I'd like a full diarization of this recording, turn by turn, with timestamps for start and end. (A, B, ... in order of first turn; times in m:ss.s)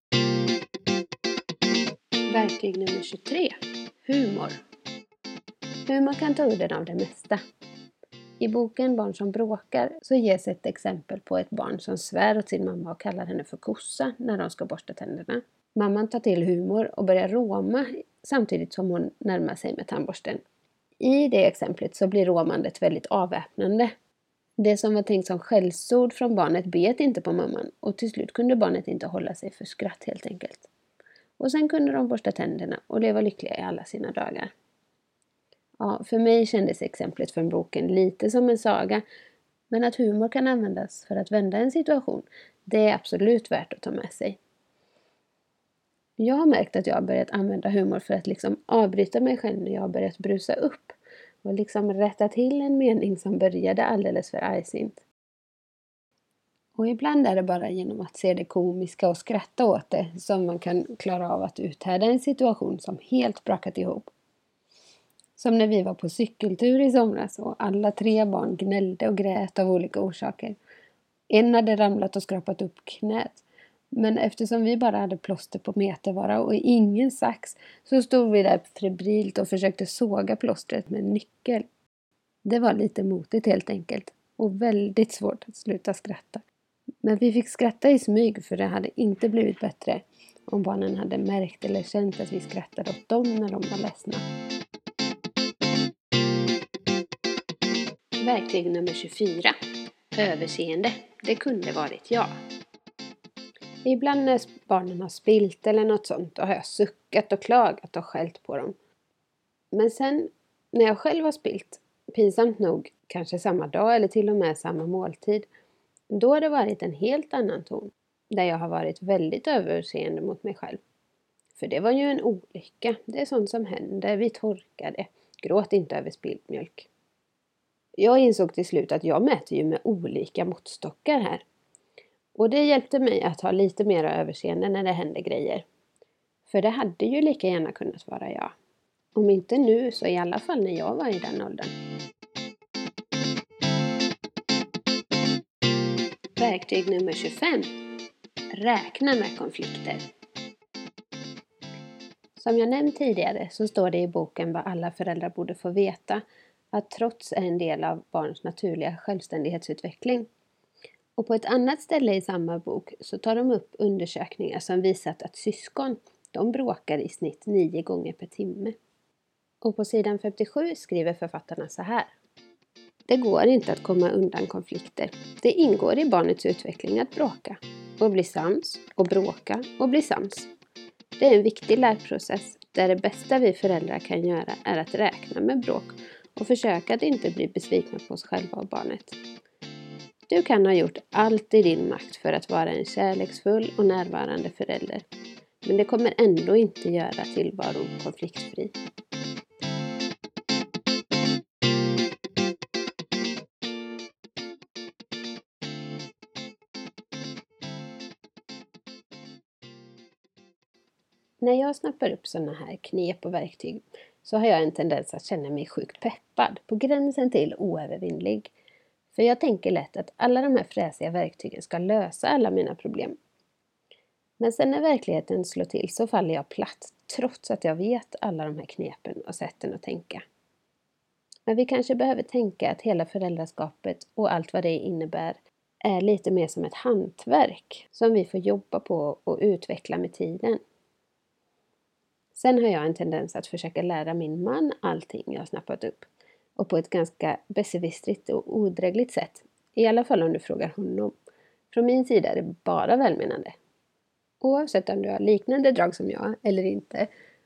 0:02.3-0:04.6 A
0:05.9-0:07.4 A
0:08.4-0:20.4 A
0:21.0-0:23.9 A
0:24.6-0:30.7 A
0:31.4-0:34.5 A
0:35.8-0:39.0 A
0:39.7-0:44.4 A
0:46.2-0:55.0 A
0:56.8-1:04.1 A
1:05.4-1:10.6 A
1:11.3-1:21.6 A
1:22.4-1:26.4 A
1:27.0-1:34.2 A
1:38.2-1:39.5 A
1:40.1-1:42.4 A
1:43.8-1:48.7 A
1:49.7-1:55.5 A
1:56.1-2:00.8 A
2:01.5-2:06.9 A
2:08.0-2:11.4 A
2:12.3-2:15.6 A
2:16.5-2:18.5 A
2:19.1-2:21.7 A
2:26.4-2:27.7 A
2:28.5-2:30.0 A
2:32.4-2:40.3 A
2:41.2-2:48.7 A
2:49.6-2:52.1 A
2:53.1-3:00.5 A
3:01.2-3:09.2 A
3:10.3-3:15.0 A
3:15.6-3:18.7 A
3:31.4-3:38.5 A
3:39.1-3:43.2 A
3:44.4-3:50.2 A
3:51.5-4:00.6 A
4:02.3-4:11.1 A
4:11.7-4:13.6 A
4:14.4-4:17.1 A